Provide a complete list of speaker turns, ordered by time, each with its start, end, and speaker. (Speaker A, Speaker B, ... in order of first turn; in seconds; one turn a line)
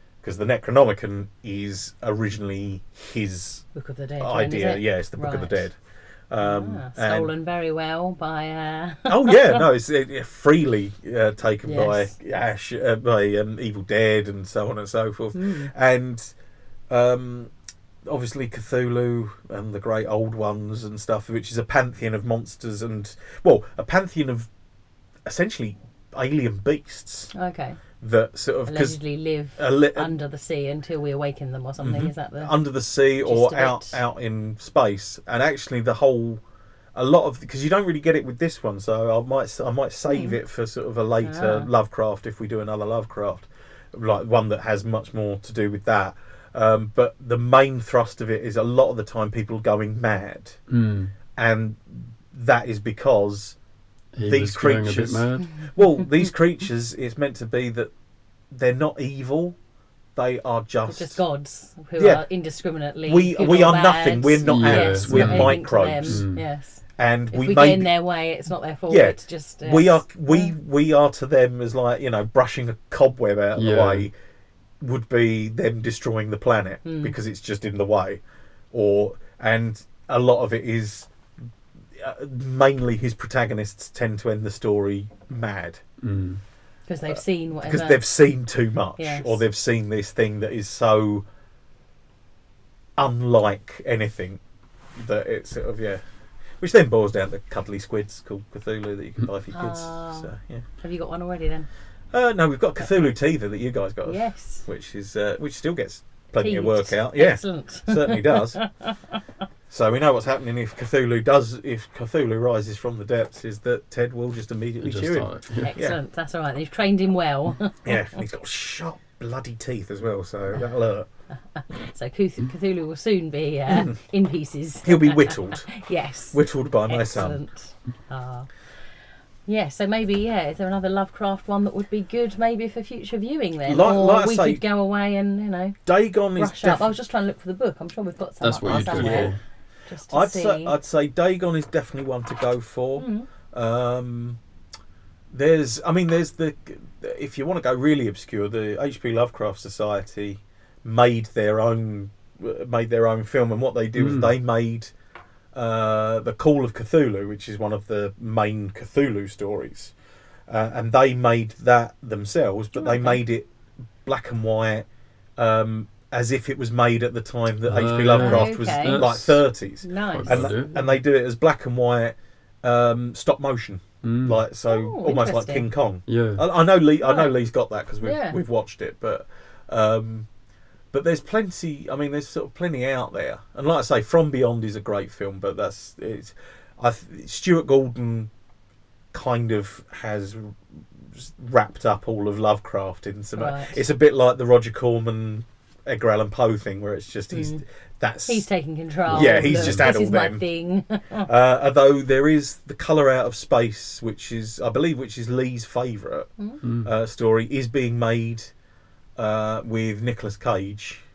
Speaker A: 0.2-3.6
Speaker B: 3.7-5.6
Speaker A: 4.2-5.8
Speaker A: 6.3-7.3
Speaker B: 6.4-9.6
Speaker A: 9.1-16.3
Speaker B: 11.7-12.1
Speaker B: 15.3-15.7
Speaker A: 16.9-17.5
Speaker A: 18.0-24.5
Speaker A: 25.2-27.3
Speaker B: 27.3-27.8
Speaker A: 28.0-29.0
Speaker B: 28.7-32.5
Speaker A: 29.6-30.1
Speaker A: 31.9-36.4
Speaker B: 33.2-34.0
Speaker A: 36.9-50.6
Speaker B: 40.1-40.3
Speaker B: 41.2-41.7
Speaker C: 50.7-51.1
Speaker A: 51.3-53.5
Speaker C: 54.1-55.5
Speaker A: 54.2-57.9
Speaker A: 58.5-59.6
Speaker A: 60.1-61.2
Speaker B: 60.9-66.8
Speaker A: 62.0-62.2
Speaker A: 63.0-66.2
Speaker C: 64.4-66.4
Speaker A: 67.0-67.9
Speaker B: 67.3-70.5
Speaker A: 68.9-74.1
Speaker C: 73.5-74.1
Speaker A: 74.8-78.2
Speaker B: 76.8-77.1
Speaker A: 78.7-81.1
Speaker A: 81.9-85.8
Speaker C: 86.0-86.4
Speaker B: 86.9-88.0
Speaker A: 87.1-91.2
Speaker B: 89.0-89.4
Speaker A: 93.0-94.4
Speaker A: 94.9-96.0
Speaker A: 96.6-100.6
Speaker B: 99.5-101.7
Speaker A: 102.1-108.6
Speaker B: 104.0-104.6
Speaker B: 106.4-109.2
Speaker A: 109.7-116.0
Speaker C: 114.8-115.7
Speaker B: 115.6-118.0
Speaker A: 117.8-121.1
Speaker B: 121.5-128.5
Speaker A: 123.7-124.0
Speaker A: 124.8-125.7
Speaker A: 126.3-127.4
Speaker B: 129.5-135.8
Speaker A: 133.7-134.6
Speaker A: 135.8-136.8
Speaker B: 136.3-139.3
Speaker C: 138.4-139.4
Speaker A: 138.6-139.3
Speaker B: 139.9-140.8
Speaker A: 140.1-144.4
Speaker B: 143.0-143.3
Speaker A: 145.3-154.9
Speaker C: 154.0-154.3
Speaker A: 155.5-159.9
Speaker A: 160.5-163.5
Speaker B: 162.8-163.2
Speaker A: 164.0-180.3
Speaker C: 167.7-169.4
Speaker B: 168.1-169.1
Speaker B: 169.8-170.6
Speaker C: 170.1-170.8
Speaker C: 174.0-174.4
Speaker B: 174.7-175.7
Speaker C: 176.1-176.4
Speaker B: 177.0-177.3
Speaker B: 178.0-178.4
Speaker A: 180.9-188.3
Speaker A: 189.1-198.4
Speaker B: 193.3-193.8
Speaker B: 197.3-197.6
Speaker B: 198.2-201.3
Speaker C: 199.1-199.9
Speaker A: 199.1-200.4
Speaker A: 201.2-206.3
Speaker C: 206.6-206.9
Speaker A: 206.8-208.5
Speaker A: 209.2-211.0